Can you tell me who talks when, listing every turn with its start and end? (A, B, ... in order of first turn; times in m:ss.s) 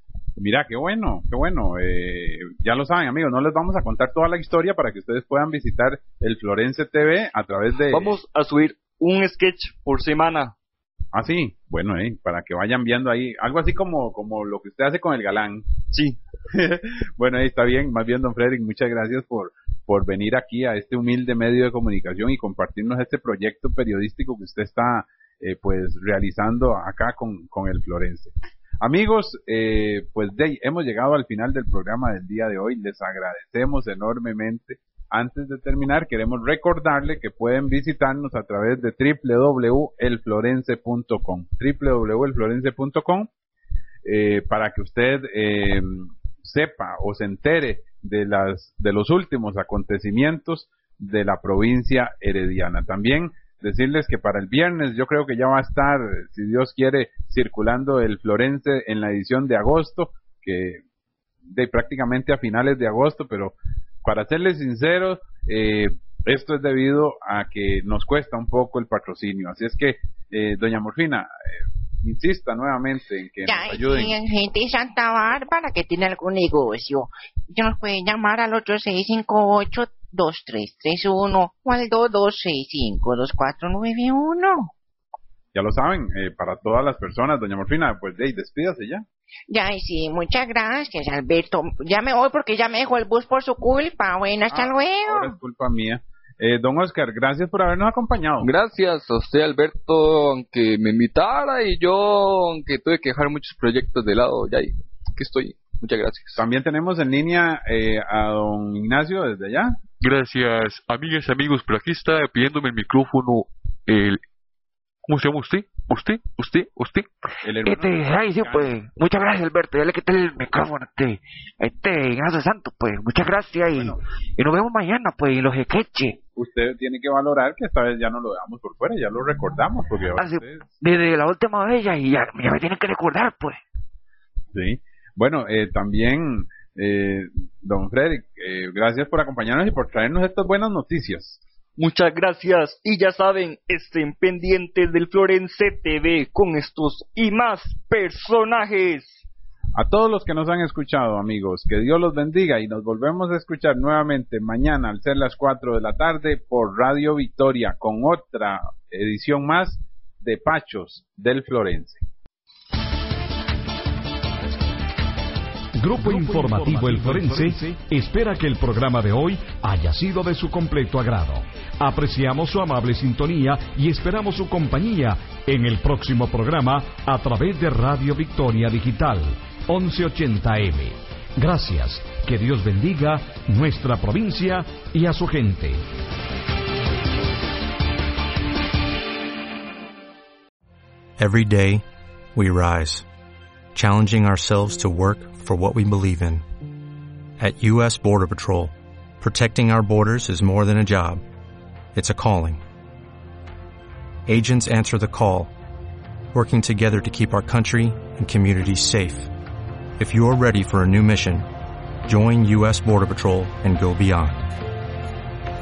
0:00.4-0:08.2 A
0:07.9-0:10.5 B
0:11.1-0:15.6 A
0:16.5-0:43.3 A
0:44.0-1:00.8 A
1:01.5-1:14.2 A
1:13.4-1:24.7 C
1:25.5-1:29.0 A
1:29.5-1:35.4 C
1:34.5-1:38.5 A
1:38.4-1:46.4 D
1:46.4-1:49.8 A
1:50.0-1:54.2 E
1:55.1-1:57.1 E
1:57.4-1:58.8 A
1:57.6-2:06.2 F
2:03.7-2:04.0 A
2:06.4-2:10.7 A
2:10.1-2:13.6 F
2:14.5-2:21.4 A
2:21.8-2:29.2 B
2:22.0-2:29.1 D
2:29.7-2:42.0 A
2:45.8-3:05.8 G
3:11.2-3:13.1 H
3:13.7-3:16.4 H
3:17.4-3:21.2 H
3:21.9-3:22.6 H
3:24.3-3:25.5 H
3:26.3-3:29.3 H
3:30.0-3:31.5 H
3:32.0-3:34.6 H